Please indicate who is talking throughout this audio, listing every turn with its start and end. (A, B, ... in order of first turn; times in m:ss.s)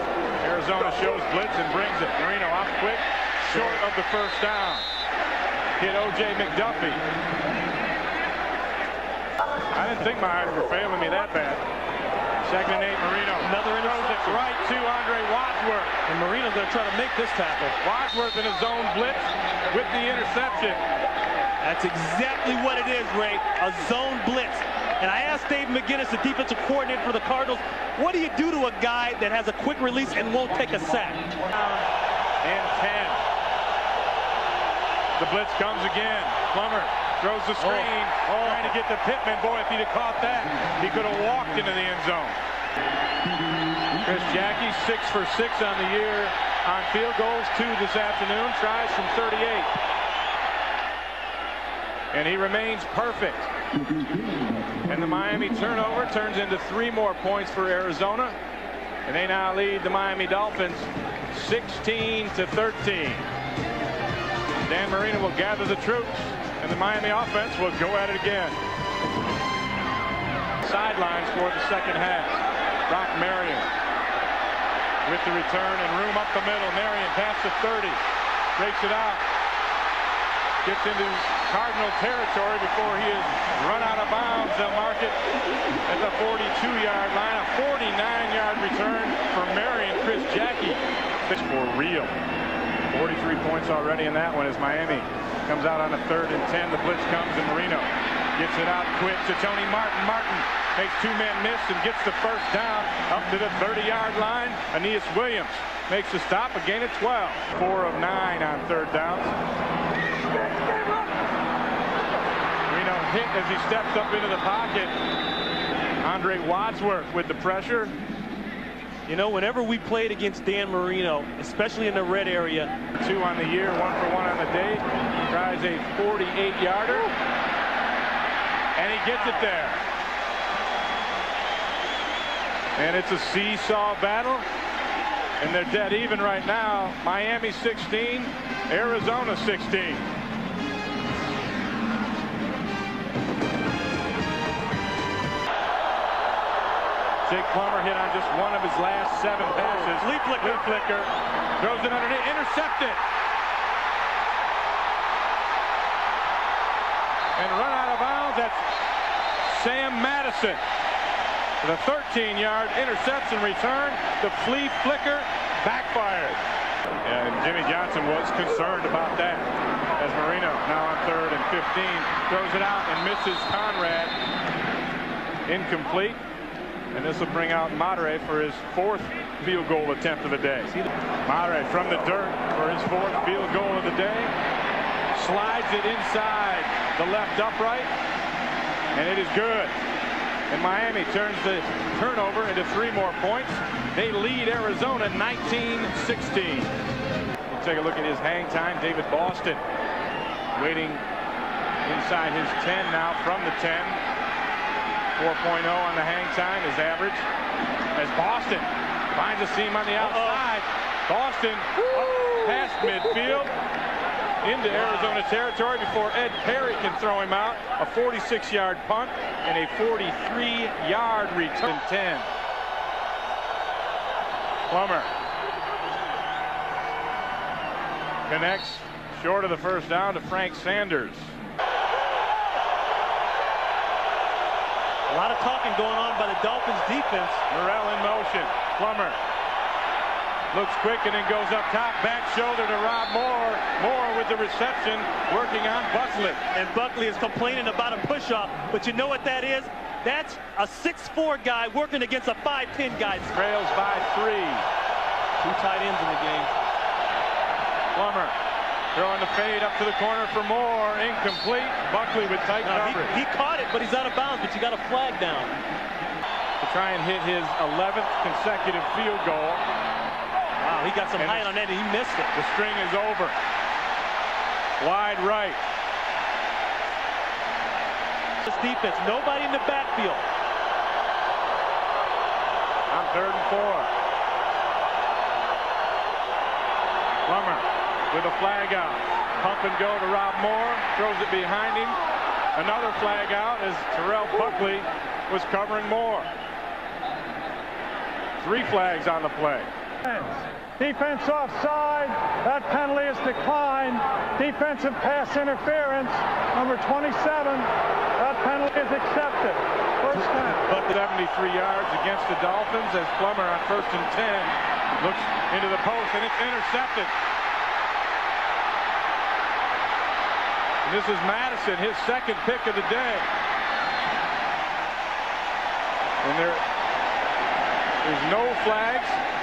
0:00.4-0:04.9 A
0:03.5-0:03.8 B
0:05.8-0:07.0 A
0:09.7-0:11.6 A
0:12.4-0:15.9 A
0:13.4-0:14.4 B
0:16.1-0:17.8 B
0:17.8-0:20.8 A
0:21.6-0:31.2 B
0:31.5-0:31.9 A
0:32.4-0:33.2 A
0:35.2-0:42.4 A
0:37.6-0:38.7 B
0:43.9-0:49.7 A
0:52.1-0:53.5 A
0:54.9-0:58.4 A
0:59.1-1:03.2 A
1:04.6-1:08.6 A
1:10.6-1:12.3 A
1:12.9-1:13.6 A
1:15.0-1:18.0 A
1:18.6-1:19.2 A
1:20.6-1:25.2 A
1:25.9-1:32.1 A
1:32.9-1:49.3 A
1:52.7-1:54.9 A
1:56.0-1:57.9 A
1:59.1-2:02.7 B
2:03.0-2:07.1 A
2:08.8-2:09.8 A
2:12.8-2:14.4 A
2:15.4-2:20.0 A
2:27.2-2:33.0 A
2:29.6-2:30.8 B
2:37.4-2:38.6 A
2:39.4-2:40.6 A
2:41.6-2:46.4 A
2:47.0-2:54.1 A
2:55.5-2:56.2 A
2:56.9-3:00.7 A
3:01.2-3:04.3 A
3:05.1-3:07.9 A
3:08.9-3:09.7 A
3:10.5-3:16.7 A
3:17.5-3:19.6 A
3:20.5-3:21.0 A
3:21.8-3:24.0 A
3:25.2-3:27.2 A
3:27.9-3:33.5 A
3:30.0-3:30.4 B
3:34.4-3:42.3 A
3:34.7-3:35.2 B
3:44.7-3:45.1 A
3:48.3-3:51.4 A
3:55.1-3:57.4 B
3:57.5-3:59.2 A
4:00.5-4:06.4 A
4:06.5-4:13.3 B
4:13.3-4:14.7 A
4:15.4-4:16.5 B
4:17.9-4:18.3 A
4:18.9-4:23.2 A
4:22.6-4:25.6 B
4:26.6-4:29.6 A
4:30.6-4:32.3 B
4:31.2-4:31.5 A
4:32.3-4:33.4 A
4:34.8-4:35.6 A
4:38.4-4:40.2 B
4:42.9-4:43.9 A
4:47.2-4:52.0 A
4:52.5-4:56.3 A
4:58.4-4:59.7 A
5:00.0-5:10.8 C
5:10.1-5:10.9 B
5:10.8-5:17.1 A
5:20.8-5:23.3 A
5:26.2-5:26.6 A
5:28.0-5:29.2 A